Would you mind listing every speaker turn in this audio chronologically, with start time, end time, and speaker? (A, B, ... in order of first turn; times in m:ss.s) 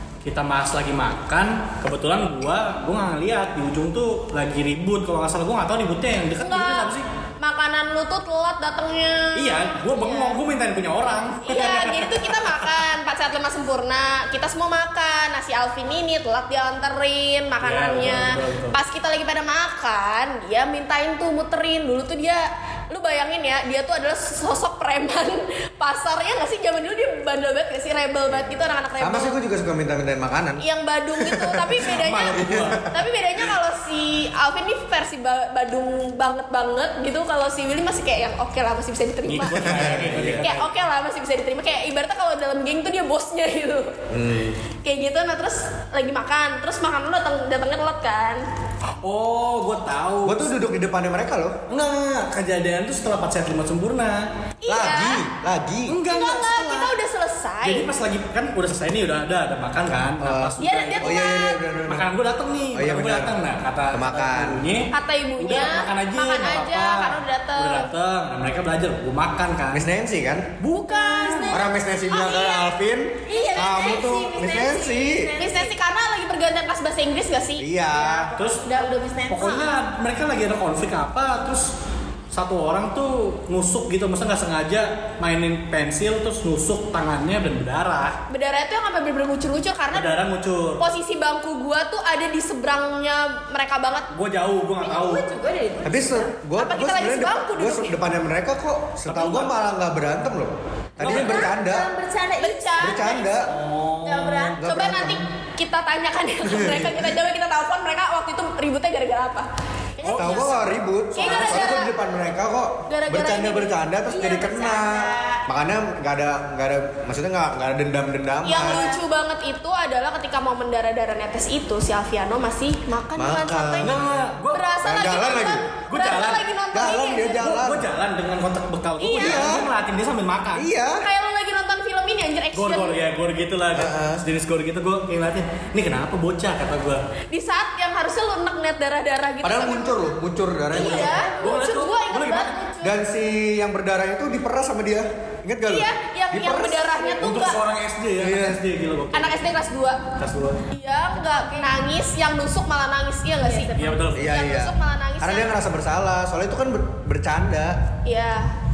0:00.2-0:07.0 A
0:06.4-0:10.4 B
0:09.4-0:12.8 A
0:11.4-0:29.4 B
0:17.6-0:18.8 A
0:28.3-0:30.6 C
0:30.6-0:43.9 B
0:31.2-0:33.0 C
0:31.9-0:32.8 A
0:39.3-0:40.7 A
0:39.6-0:40.5 C
0:44.1-0:44.6 C
0:44.8-0:48.4 B
0:49.0-0:50.6 A
0:50.2-0:51.6 C
0:51.7-0:54.3 A
0:54.6-0:55.2 B
0:54.7-0:56.0 C
0:55.9-0:56.9 A
0:56.1-0:57.9 B
0:57.6-1:01.2 A
1:00.2-1:02.1 C
1:00.6-1:01.6 B
1:01.9-1:09.9 A
1:02.7-1:03.4 C
1:03.9-1:04.6 C
1:04.9-1:07.9 B
1:09.7-1:10.6 C
1:10.6-1:11.6 A
1:10.7-1:11.7 D
1:11.5-1:15.3 C
1:12.1-1:12.6 B
1:13.3-1:15.7 D
1:15.4-1:17.7 B
1:17.6-1:18.3 C
1:17.9-1:19.7 D
1:18.4-1:18.6 A
1:19.3-1:21.7 A
1:22.3-1:28.2 A
1:28.3-1:30.2 B
1:29.9-1:30.8 A
1:30.8-1:34.1 B
1:34.1-1:35.3 A
1:34.8-1:36.3 D
1:35.8-1:41.9 C
1:36.6-1:38.0 B
1:39.0-1:39.6 A
1:41.0-1:41.5 A
1:41.0-1:43.3 D
1:42.4-1:43.3 B
1:42.8-1:43.5 C
1:43.5-1:44.6 A
1:44.0-1:44.6 D
1:44.6-1:45.2 C
1:44.6-1:49.5 B
1:46.4-1:47.1 C
1:50.0-1:50.6 D
1:50.0-1:50.4 B
1:50.1-1:50.5 A
1:50.1-1:59.0 C
1:51.1-1:51.9 B
1:51.2-1:51.6 D
1:52.9-1:53.8 B
1:54.1-1:55.4 D
1:58.4-2:07.4 B
1:58.7-1:59.0 D
2:03.2-2:04.1 C
2:03.8-2:04.7 A
2:04.8-2:05.7 C
2:05.9-2:06.5 A
2:06.7-2:07.9 C
2:07.4-2:10.7 A
2:09.0-2:09.6 B
2:09.2-2:09.7 C
2:10.6-2:11.1 C
2:11.0-2:13.0 B
2:12.5-2:17.0 A
2:13.7-2:14.2 C
2:17.3-2:20.2 B
2:19.4-2:21.2 C
2:20.7-2:23.0 B
2:20.8-2:22.6 A
2:20.8-2:21.3 D
2:22.8-2:27.1 C
2:25.7-2:27.6 B
2:27.2-2:29.5 A
2:28.2-2:28.6 C
2:29.1-2:30.0 B
2:30.2-2:30.6 A
2:30.7-2:35.6 B
2:31.1-2:31.8 D
2:33.4-2:34.1 D
2:33.8-2:34.3 A
2:34.2-2:37.8 C
2:38.0-2:38.5 B